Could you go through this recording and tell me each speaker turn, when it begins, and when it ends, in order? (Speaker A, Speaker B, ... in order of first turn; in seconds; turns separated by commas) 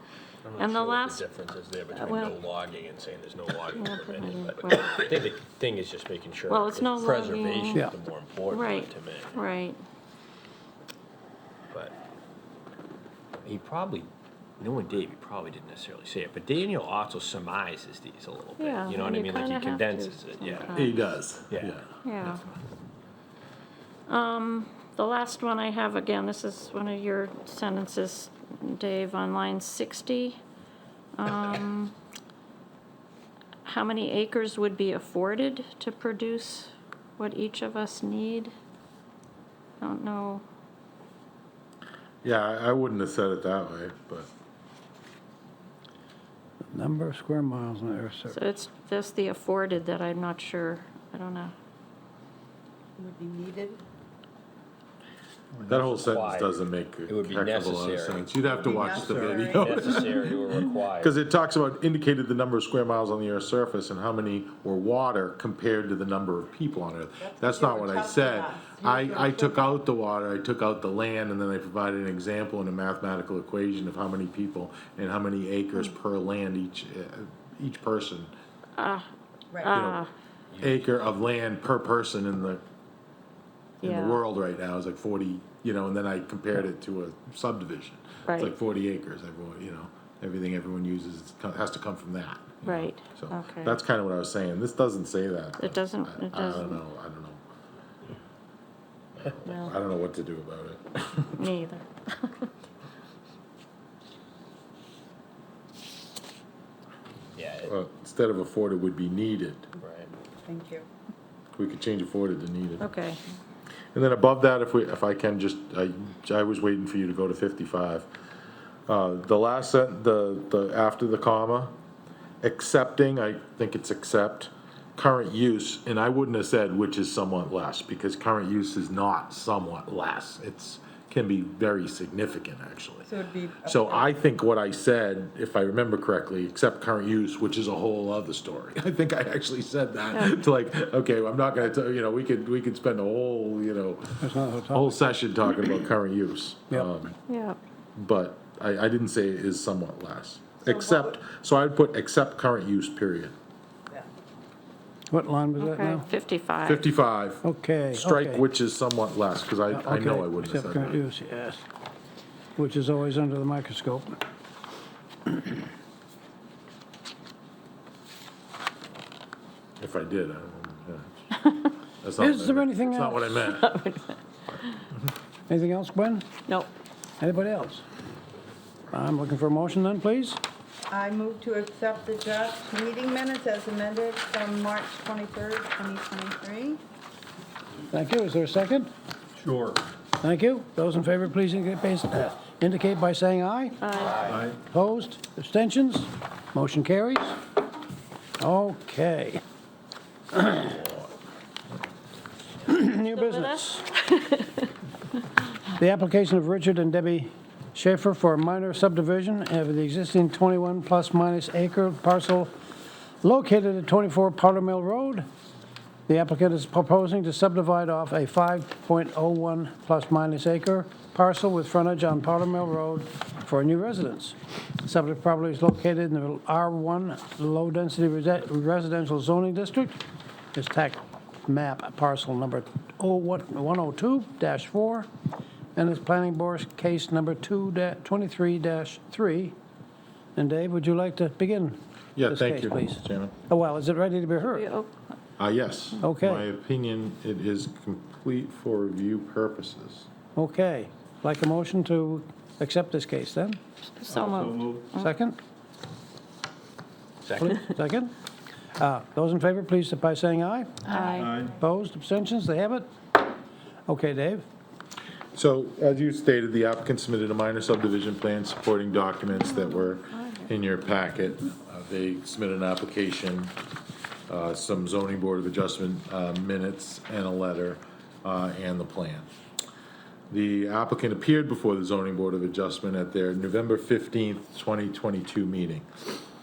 Speaker A: 0.4-9.4, Speaker B: 0.5-1.2, Speaker B: 1.9-2.4, Speaker B: 3.7-5.1, Speaker B: 6.5-7.9, Speaker B: 8.5-9.8, Speaker A: 13.4-14.1, Speaker A: 14.6-22.5, Speaker B: 18.6-21.0, Speaker C: 20.7-21.8, Speaker B: 22.0-22.4, Speaker B: 24.1-30.4, Speaker B: 31.1-31.9, Speaker B: 33.6-38.5, Speaker B: 39.8-40.4, Speaker C: 42.2-44.3, Speaker D: 46.6-48.4, Speaker B: 48.3-51.5, Speaker E: 53.0-53.8, Speaker C: 55.6-60.3, Speaker A: 55.6-61.2, Speaker E: 58.4-60.1, Speaker C: 60.9-78.3, Speaker E: 67.2-69.7, Speaker B: 78.8-79.1, Speaker B: 79.6-80.1, Speaker C: 79.7-80.0, Speaker A: 80.5-80.9, Speaker C: 80.6-82.6, Speaker C: 83.8-97.4, Speaker B: 83.8-84.2, Speaker B: 88.3-88.5, Speaker B: 92.6-93.8, Speaker B: 95.6-96.8, Speaker C: 99.1-101.3, Speaker B: 101.4-102.5, Speaker A: 107.3-107.7, Speaker C: 107.6-109.7, Speaker A: 109.8-110.1, Speaker E: 110.4-110.8, Speaker C: 111.5-112.8, Speaker B: 112.8-113.2, Speaker C: 113.9-118.1, Speaker C: 118.9-121.7, Speaker C: 122.4-133.1, Speaker E: 133.1-134.1, Speaker C: 133.6-147.2, Speaker D: 144.2-145.0, Speaker B: 147.3-147.6, Speaker C: 147.9-153.3, Speaker E: 150.7-151.1, Speaker D: 155.1-156.0, Speaker B: 155.6-156.8, Speaker C: 156.6-161.0, Speaker D: 157.4-158.4, Speaker D: 159.7-161.6, Speaker D: 162.6-164.2, Speaker D: 165.3-165.5, Speaker C: 169.8-171.2, Speaker C: 172.0-173.8, Speaker D: 172.2-173.4, Speaker B: 173.5-174.2, Speaker D: 175.5-176.3, Speaker D: 177.2-177.8, Speaker D: 178.9-180.4, Speaker E: 180.9-186.8, Speaker D: 187.9-188.9, Speaker F: 189.4-189.8, Speaker D: 190.2-197.4, Speaker B: 193.8-194.3, Speaker F: 194.2-194.6, Speaker D: 198.4-199.4, Speaker D: 200.3-200.9, Speaker D: 202.6-203.8, Speaker B: 203.1-204.7, Speaker D: 205.8-212.5, Speaker D: 213.2-215.3, Speaker D: 216.1-230.0, Speaker D: 230.5-235.1, Speaker D: 235.7-239.5, Speaker D: 240.3-244.7, Speaker C: 242.2-243.3, Speaker B: 244.5-244.9, Speaker C: 245.4-250.1, Speaker D: 246.0-246.4, Speaker D: 250.3-253.6, Speaker B: 253.9-255.1, Speaker F: 254.1-254.9, Speaker D: 254.9-255.4, Speaker A: 257.2-257.7, Speaker D: 257.4-258.1, Speaker D: 258.8-262.9, Speaker B: 260.9-261.4, Speaker F: 261.1-261.5, Speaker D: 263.9-264.4, Speaker C: 265.3-273.5, Speaker B: 269.3-270.5, Speaker C: 274.3-279.3, Speaker C: 280.3-285.9